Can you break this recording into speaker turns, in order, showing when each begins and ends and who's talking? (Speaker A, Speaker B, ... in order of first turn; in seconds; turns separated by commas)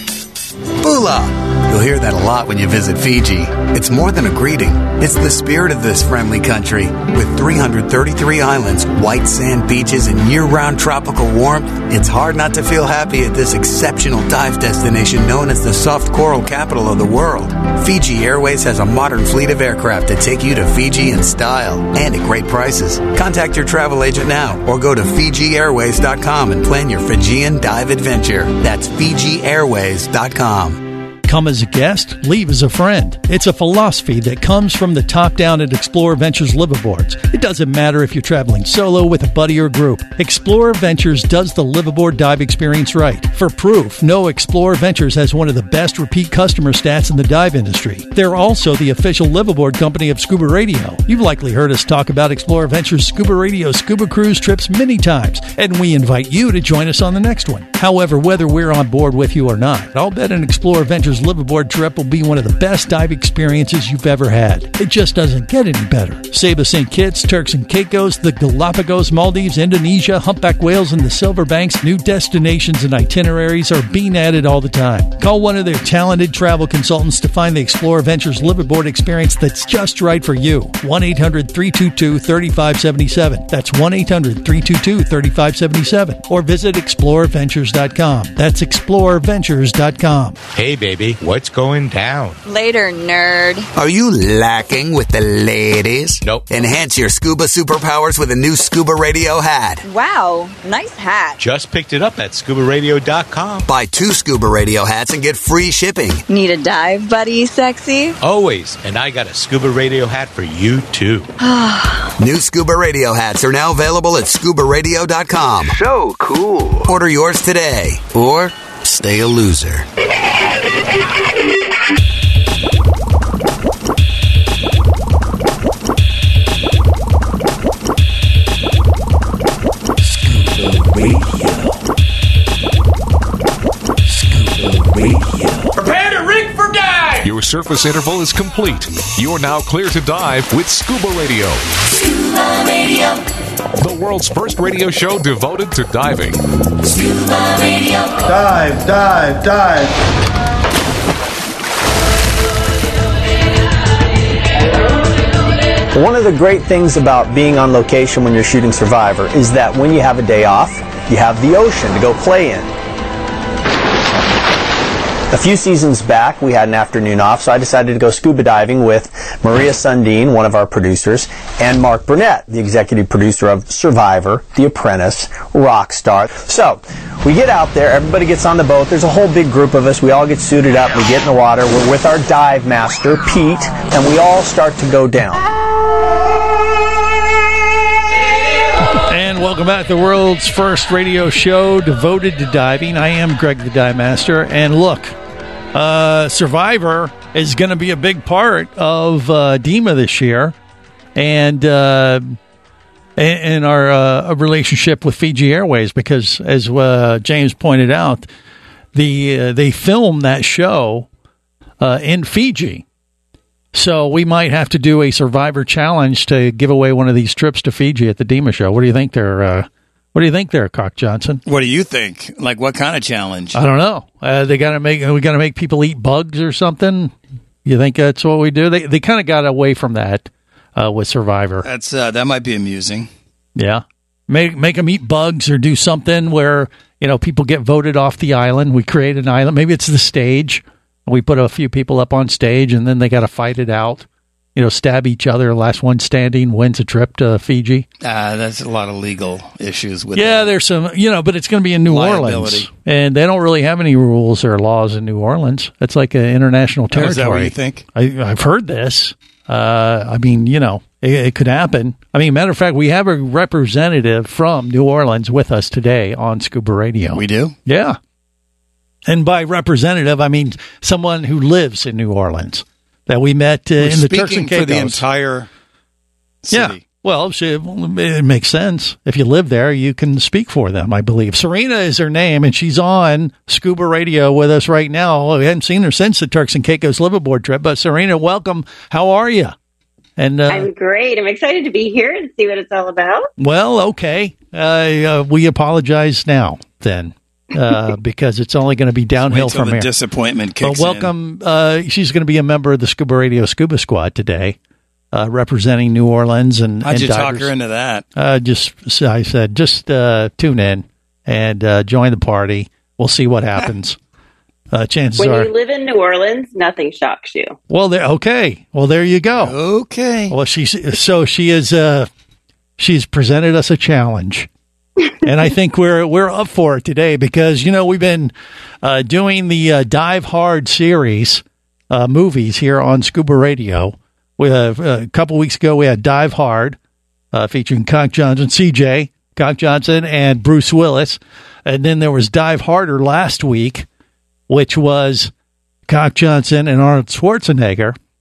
Speaker A: 0.8-30.8, Speaker B: 31.2-90.4, Speaker C: 90.5-92.4, Speaker D: 92.5-93.7, Speaker A: 93.7-99.8, Speaker D: 99.8-101.4, Speaker C: 101.4-103.7, Speaker A: 103.7-106.2, Speaker D: 106.3-108.1, Speaker C: 108.2-111.3, Speaker D: 111.4-112.1, Speaker A: 112.2-115.8, Speaker A: 116.8-119.8, Speaker E: 137.2-141.7, Speaker E: 143.8-146.4, Speaker B: 148.2-149.9, Speaker F: 155.9-162.7, Speaker F: 165.3-185.4, Speaker B: 188.9-195.1, Speaker B: 195.7-200.6, Speaker B: 201.1-202.4, Speaker B: 203.2-208.3, Speaker B: 208.9-211.1, Speaker B: 211.8-212.8, Speaker B: 213.7-221.4, Speaker G: 221.4-223.6, Speaker B: 223.5-227.1, Speaker B: 227.6-231.7, Speaker G: 231.6-233.1, Speaker B: 233.6-247.8, Speaker G: 248.0-250.5, Speaker B: 250.1-268.0, Speaker G: 251.9-252.7, Speaker G: 256.9-257.8, Speaker G: 267.1-267.5, Speaker B: 269.1-275.0, Speaker G: 273.8-275.5, Speaker G: 276.4-276.8, Speaker B: 276.5-289.5, Speaker B: 290.2-290.7, Speaker H: 290.5-293.3, Speaker B: 293.4-299.9, Speaker G: 299.2-301.1, Speaker B: 300.6-304.6, Speaker B: 305.1-307.5, Speaker G: 306.8-308.0, Speaker B: 308.1-314.0, Speaker B: 314.7-315.5, Speaker H: 315.2-317.5, Speaker B: 317.7-319.6, Speaker G: 319.4-320.3, Speaker B: 320.3-322.1, Speaker B: 322.8-324.5, Speaker B: 325.2-336.8, Speaker B: 337.3-343.9, Speaker B: 344.5-345.3, Speaker B: 345.9-348.0